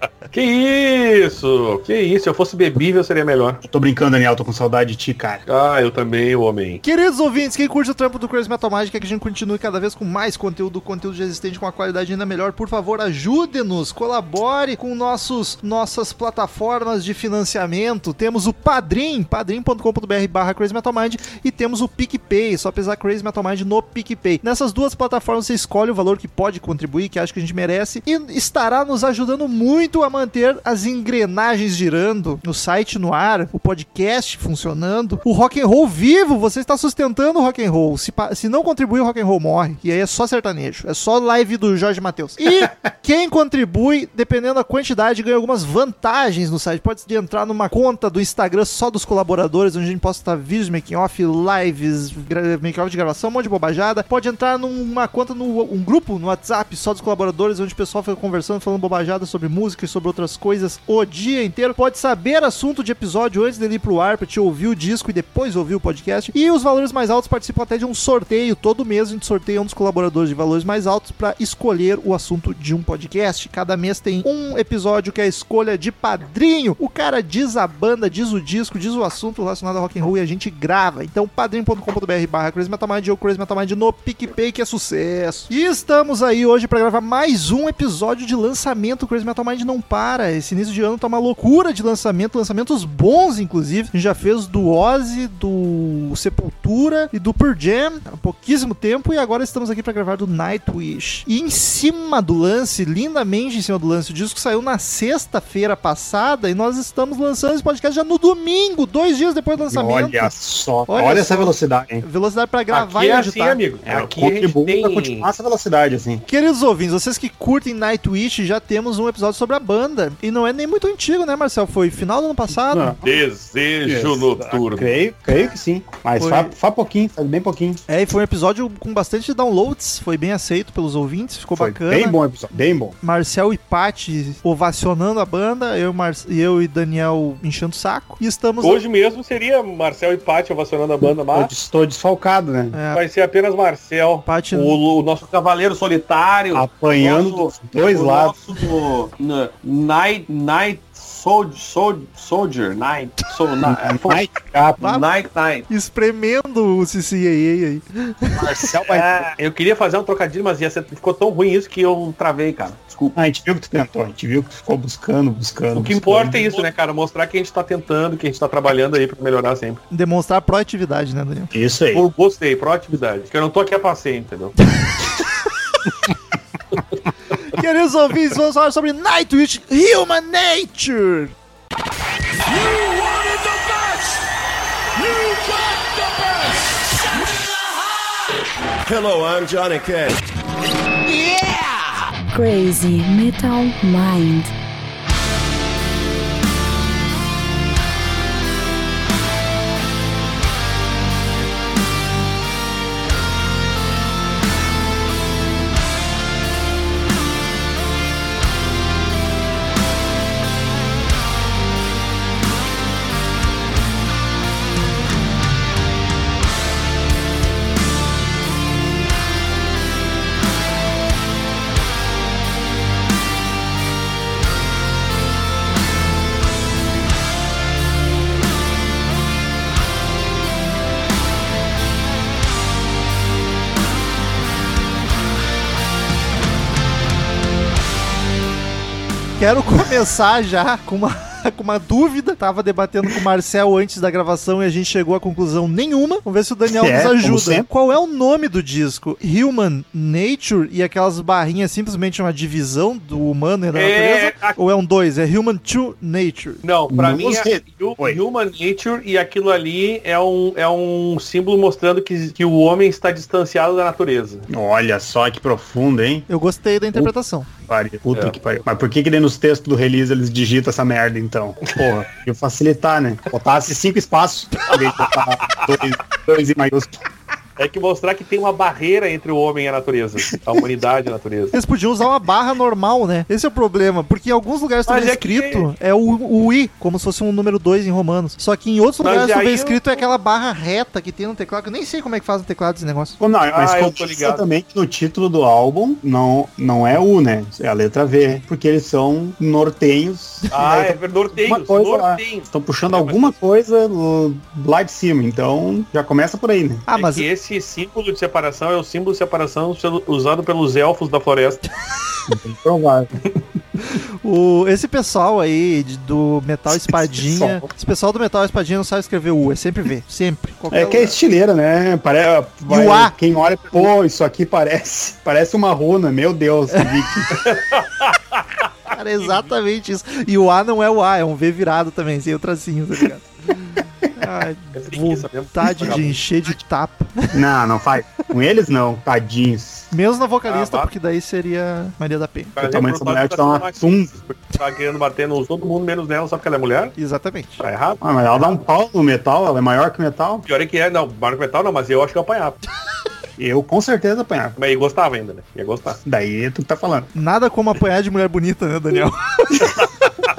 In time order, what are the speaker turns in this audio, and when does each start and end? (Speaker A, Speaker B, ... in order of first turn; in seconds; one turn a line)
Speaker A: 0.3-3.6
Speaker B: 3.6-5.4
Speaker A: 5.5-6.8
Speaker C: 6.8-110.3
Speaker B: 109.6-112.0
Speaker C: 110.9-113.6
Speaker A: 112.7-115.3
Speaker B: 113.8-116.2
Speaker C: 116.3-123.0
Speaker B: 122.5-123.2
Speaker A: 123.0-125.0
Speaker B: 123.8-127.8
Speaker C: 126.2-126.5
Speaker C: 127.9-132.2
Speaker B: 131.6-133.0
Speaker C: 133.0-138.8
Speaker A: 138.6-141.5
Speaker B: 141.3-142.8
Speaker C: 142.7-143.0
Speaker A: 142.9-154.3
Speaker C: 144.3-144.8
Speaker B: 146.5-148.3
Speaker B: 153.6-154.8
Speaker A: 154.8-155.7
Speaker C: 155.7-158.7
Speaker B: 158.4-159.3
Speaker A: 158.9-163.2
Speaker B: 163.2-166.5
Speaker A: 165.7-169.8
Speaker C: 169.9-171.5
Speaker B: 171.5-172.1
Speaker A: 171.9-174.6
Speaker C: 177.5-181.3
Speaker D: 182.5-184.1
Speaker D: 185.0-186.6
Speaker D: 188.9-190.2
Speaker D: 191.1-191.7
Speaker E: 192.3-194.5
Speaker C: 239.4-256.6
Speaker B: 246.7-247.7
Speaker A: 253.7-254.6
Speaker A: 256.6-264.5
Speaker B: 256.9-258.2
Speaker B: 264.5-266.3
Speaker C: 266.3-267.5
Speaker B: 267.7-277.0
Speaker A: 274.7-275.8
Speaker A: 277.6-281.6
Speaker C: 281.5-293.2
Speaker A: 284.9-285.7
Speaker A: 289.0-289.8
Speaker B: 293.2-306.9
Speaker A: 293.5-294.4
Speaker A: 300.5-303.4
Speaker C: 306.9-307.3
Speaker A: 306.9-311.6
Speaker B: 312.3-313.2
Speaker C: 313.9-321.1
Speaker B: 316.7-317.7
Speaker B: 320.7-327.4
Speaker C: 322.7-323.1
Speaker A: 327.3-329.5
Speaker C: 328.9-337.4
Speaker A: 334.8-336.2
Speaker B: 337.3-339.9
Speaker C: 339.9-342.6
Speaker A: 340.5-340.9
Speaker A: 342.6-346.9
Speaker B: 342.6-344.1
Speaker C: 347.0-347.7
Speaker A: 347.6-348.6
Speaker B: 348.0-350.4
Speaker A: 350.5-352.6
Speaker B: 353.4-354.6
Speaker A: 354.6-356.0
Speaker B: 356.1-357.1
Speaker C: 357.1-359.8